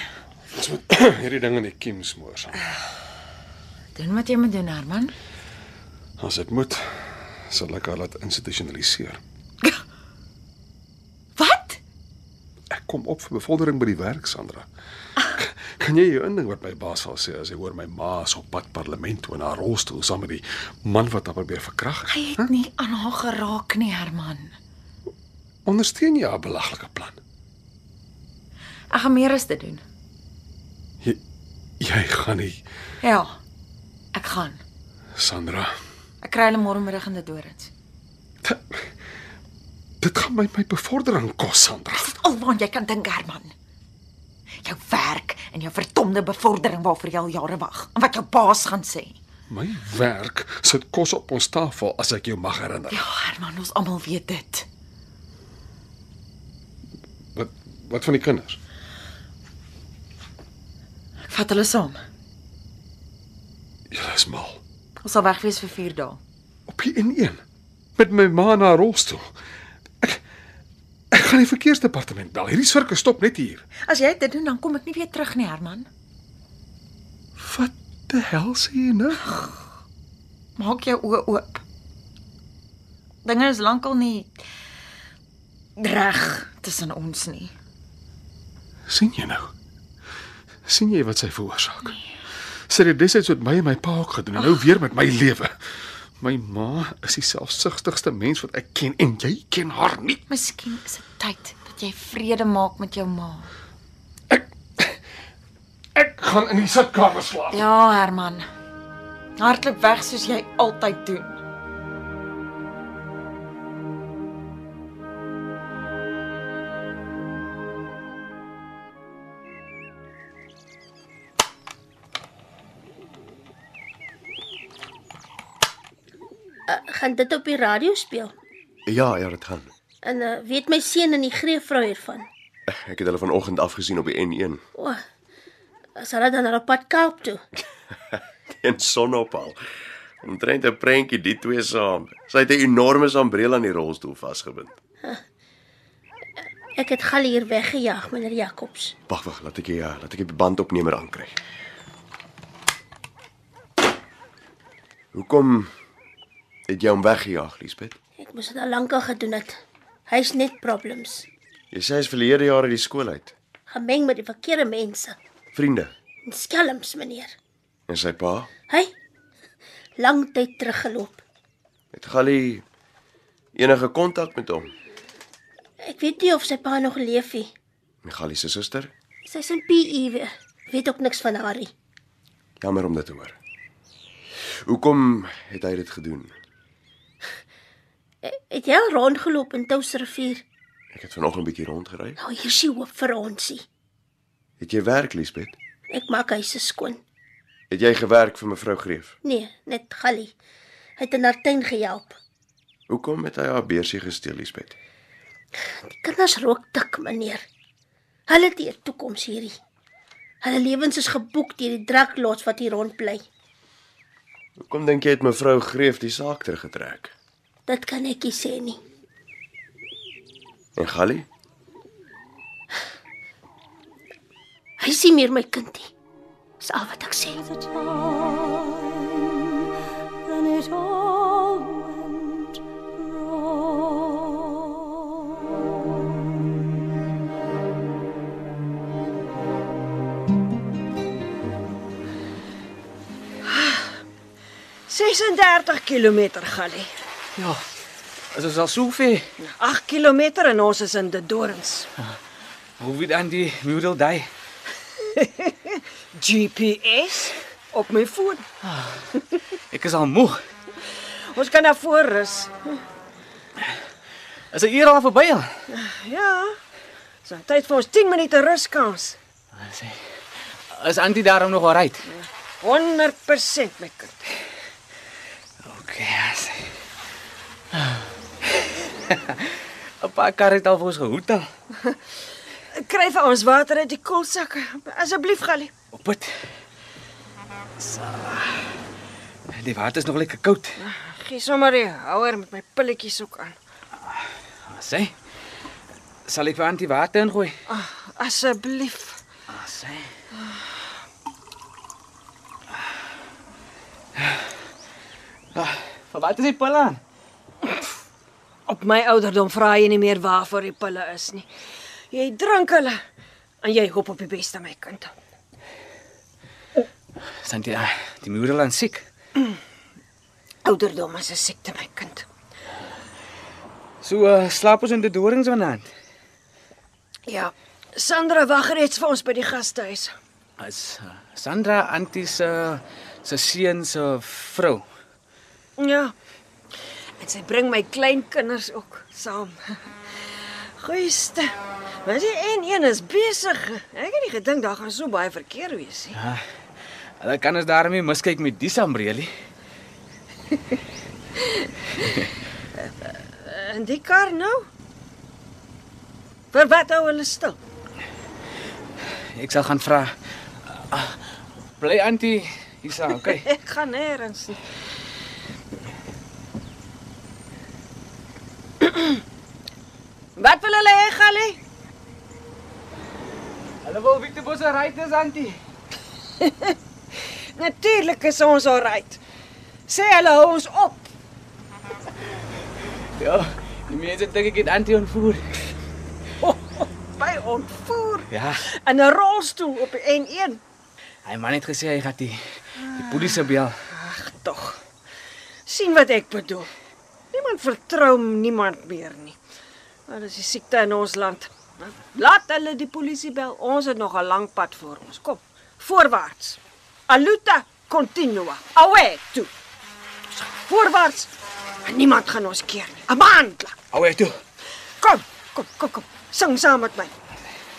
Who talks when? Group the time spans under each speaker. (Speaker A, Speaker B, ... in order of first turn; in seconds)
Speaker A: 0.5-2.6, 6.2-9.2, 12.7-14.7, 15.3-22.5, 25.6-27.2, 31.8-32.6, 35.1-35.7, 38.4-38.9, 40.0-42.1, 49.5-53.0, 57.4-58.6, 63.9-64.6, 66.7-67.4, 68.0-69.3, 71.1-73.7, 77.4-79.3, 88.9-89.5, 90.7-92.0, 92.7-95.5, 96.2-100.2, 104.3-105.0, 106.0-107.6
Speaker B: 4.0-5.1, 11.4-11.8, 22.1-24.5, 28.9-29.8, 33.0-33.3, 34.1-34.6, 36.2-37.7, 42.0-43.5, 44.6-49.2, 52.9-54.7, 61.3-62.0, 65.0-66.2, 73.8-75.9, 80.6-81.6, 83.2-84.3, 85.8-87.5, 100.3-103.5, 107.5-108.5, 109.4-111.4
Speaker C: 126.7-128.3, 130.0-132.3, 134.8-135.0, 136.0-137.4, 146.8-149.0, 158.2-161.3, 163.7-165.2, 166.3-167.3, 170.0-171.2, 175.8-177.5, 179.2-181.7, 188.2-190.4, 192.2-193.7, 195.9-197.0, 199.2-200.3, 201.0-202.2, 205.7-207.4, 208.3-209.6, 210.4-213.3, 217.7-218.8, 224.8-225.9, 226.6-227.4
Speaker D: 128.9-129.7, 132.7-134.6, 138.6-139.6, 140.2-144.8, 149.1-151.4, 155.1-155.7, 156.7-158.0, 161.7-163.3, 165.5-165.9, 167.9-168.5, 171.9-172.7, 173.6-174.7, 178.0-178.9, 182.6-183.4, 184.7-186.3, 190.9-192.2, 194.6-195.6, 197.7-199.2, 202.9-204.8, 214.6-217.1, 220.8-221.3
Speaker E: 227.3-229.7, 230.3-236.3
Speaker F: 243.5-243.9, 244.9-246.9, 249.4-251.9, 255.2-258.4, 261.3-262.8, 265.7-266.6, 267.2-269.2, 272.1-274.3, 282.8-285.7, 290.8-293.6, 297.7-299.2, 308.7-311.5, 312.1-313.0, 313.6-315.1, 320.6-322.3, 327.3-330.1, 335.8-336.1, 337.2-339.8, 340.8-346.2, 353.3-354.7, 356.5-357.6, 363.2-364.6, 370.4-371.6, 376.4-376.7, 377.6-379.2, 379.9-381.1, 386.4-390.6, 393.9-394.8, 395.7-396.7, 397.3-399.4, 400.1-409.5, 410.4-411.3, 411.8-413.8, 415.0-417.1
Speaker G: 247.4-247.6, 248.3-249.3, 252.8-254.3, 258.6-259.0, 259.7-260.4, 264.5-265.6, 269.6-272.0, 275.6-276.7, 277.8-278.0, 279.1-281.5, 285.9-286.4, 287.8-288.4, 289.5-290.8, 294.7-295.1, 296.3-297.6, 299.5-300.1, 305.6-307.0, 317.4-319.1, 324.0-325.9, 330.6-334.9, 346.2-346.4, 347.2-349.3, 359.4-360.1, 360.9-361.2, 361.8-363.5, 373.9-375.6, 383.2-385.5, 388.3-388.6, 391.2-393.8, 413.9-414.4